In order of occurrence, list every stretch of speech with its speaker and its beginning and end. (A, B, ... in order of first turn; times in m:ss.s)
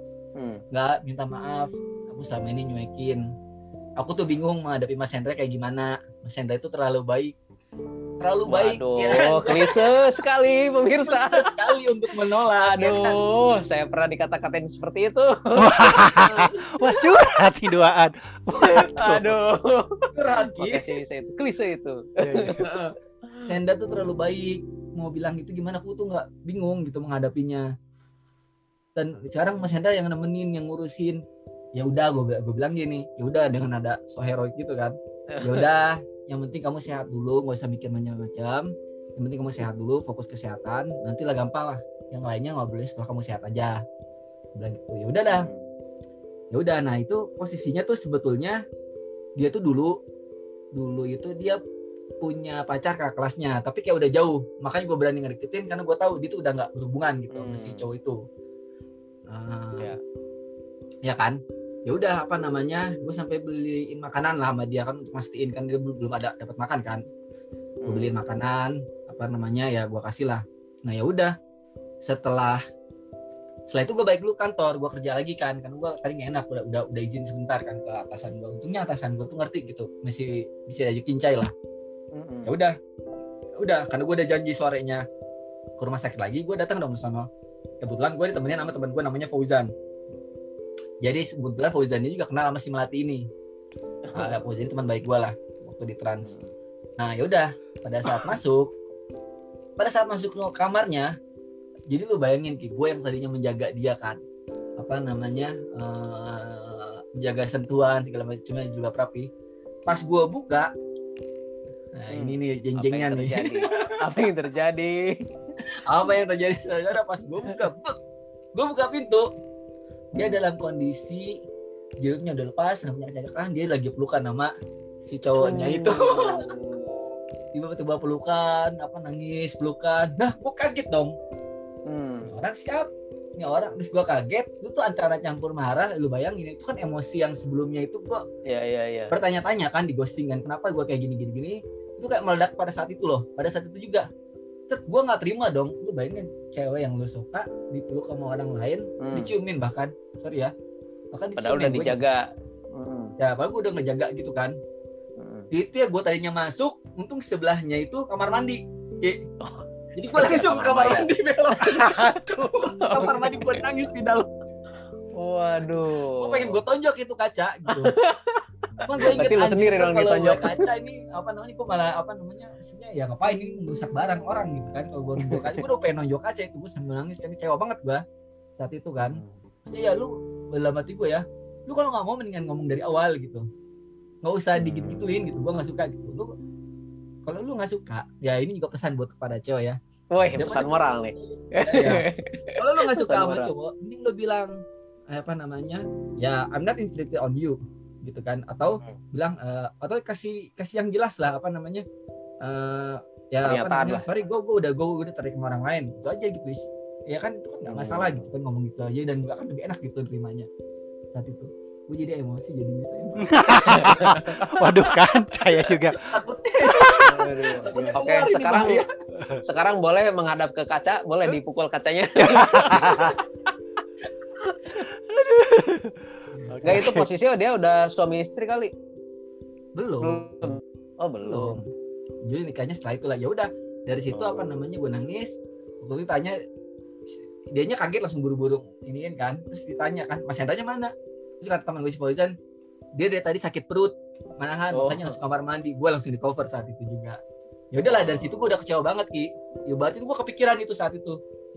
0:00.7-0:03.2 A
0:04.0-0:07.3 A
0:08.2-0:09.8 A
0:08.5-0:11.5 B
0:11.0-0:13.2 A
0:12.6-0:16.0 B
0:15.6-0:19.4 C
0:16.1-0:16.6 A
0:18.6-0:22.6 B
0:20.1-0:20.9 A
0:22.2-0:22.7 C
0:22.6-0:27.6 A
0:28.9-0:31.2 A
0:31.7-0:43.8 A
0:35.3-0:35.7 B
0:44.6-0:45.5 A
0:45.3-0:45.7 B
0:46.5-0:48.6 A
0:49.4-0:49.9 A
0:50.7-0:51.6 A
0:52.2-0:58.2 A
0:57.3-0:57.8 B
0:59.3-0:59.9 A
1:01.0-1:07.0 A
1:07.8-1:08.2 B
1:07.8-1:11.3 A
1:12.0-1:12.6 A
1:13.7-1:21.5 A
1:22.1-1:22.5 B
1:22.4-1:22.8 A
1:23.6-1:25.0 A
1:25.8-1:27.3 A
1:27.8-1:29.7 A
1:31.0-1:33.3 A
1:34.1-1:34.4 B
1:34.1-1:36.3 A
1:36.2-1:36.5 B
1:37.0-1:38.7 A
1:39.8-1:41.1 A
1:41.9-1:44.2 A
1:44.8-1:49.3 A
1:49.9-1:50.7 A
1:52.0-1:53.9 A
1:52.1-1:55.2 B
1:55.8-1:58.0 A
1:58.5-1:59.3 A
2:00.1-2:01.4 A
2:02.0-2:04.5 A
2:05.0-2:06.6 A
2:05.4-2:07.0 B
2:07.5-2:11.1 A
2:11.8-2:12.4 B
2:12.2-2:18.2 A
2:18.4-2:19.1 B
2:19.1-2:24.1 A
2:24.7-2:30.5 A
2:29.0-2:29.3 B
2:31.1-2:32.0 A
2:31.4-2:32.2 B
2:32.7-2:33.1 B
2:33.2-2:34.6 A
2:35.2-2:35.5 B
2:35.5-2:39.2 A
2:39.4-2:41.1 B
2:40.0-2:44.3 A
2:41.6-2:43.6 B
2:42.0-2:42.3 C
2:45.1-2:46.6 B
2:46.2-2:47.9 A
2:47.7-2:50.7 B
2:48.8-2:58.0 A
2:55.2-2:55.6 B
2:58.6-3:03.4 A
2:59.0-2:59.3 B
3:04.2-3:06.3 A
3:07.2-3:09.8 A
3:10.1-3:13.5 B
3:10.3-3:14.6 A
3:15.1-3:21.8 A
3:22.4-3:30.5 A
3:23.4-3:24.0 B
3:27.6-3:28.2 B
3:31.1-3:34.3 A
3:33.2-3:36.1 C
3:33.6-3:34.4 B
3:35.9-3:38.9 A
3:36.7-3:37.1 C
3:37.0-3:38.8 B
3:37.7-3:38.0 C
3:39.4-3:43.2 B
3:42.2-3:43.2 C
3:44.4-3:44.7 B
3:44.9-3:47.1 C
3:46.3-3:46.9 A
3:46.6-3:48.7 B
3:49.8-3:50.6 A
3:50.0-3:51.6 B
3:51.2-3:51.7 A
3:52.2-3:56.4 A
3:57.1-4:02.3 A
4:03.0-4:07.2 A
4:04.7-4:05.2 B
4:07.7-4:11.2 A
4:07.8-4:08.4 B